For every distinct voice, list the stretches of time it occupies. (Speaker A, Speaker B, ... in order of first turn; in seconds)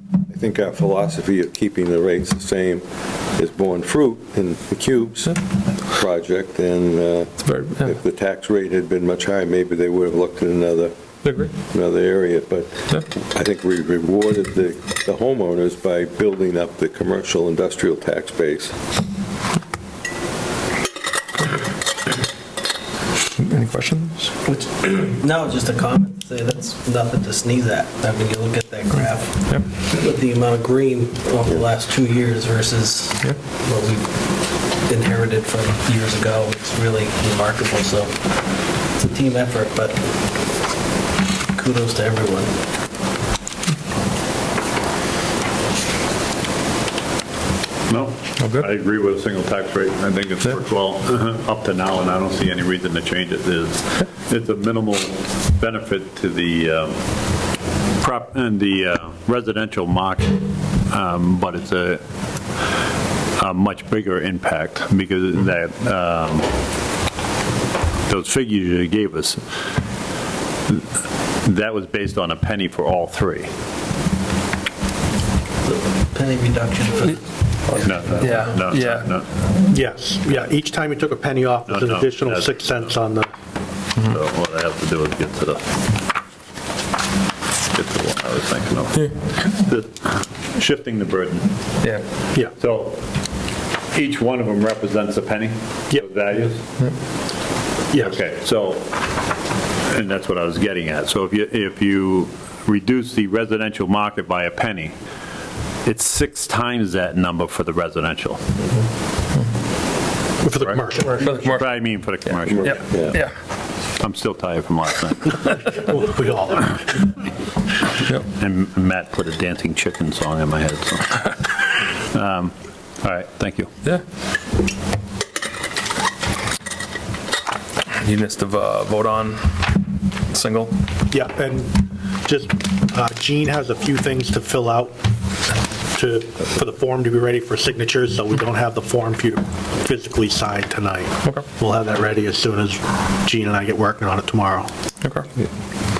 Speaker A: 0.3-2.8, 3.3-10.9, 11.5-18.7, 112.6-113.1
Speaker B: 7.4-7.9, 11.2-11.5, 23.3-24.3, 48.4-48.7, 78.2-79.1, 111.2-113.3, 128.0-130.7, 141.2-141.5, 145.0-145.3
Speaker C: 24.5-40.6, 41.5-42.6, 75.6-77.2, 77.8-78.4
Speaker D: 47.9-57.4, 58.0-62.0, 63.4-66.5, 68.1-69.4, 71.4-73.5, 77.8-79.3, 81.7-83.0, 84.0-85.7, 87.7-91.8, 92.5-93.0, 93.9-96.6, 98.0-99.0, 99.8-104.9, 105.8-108.4, 110.6-113.2, 114.0-115.8, 118.3-123.7
Speaker E: 79.7-83.3, 97.9-98.2, 110.4-111.4, 115.8-116.8, 131.1-135.0, 135.5-144.7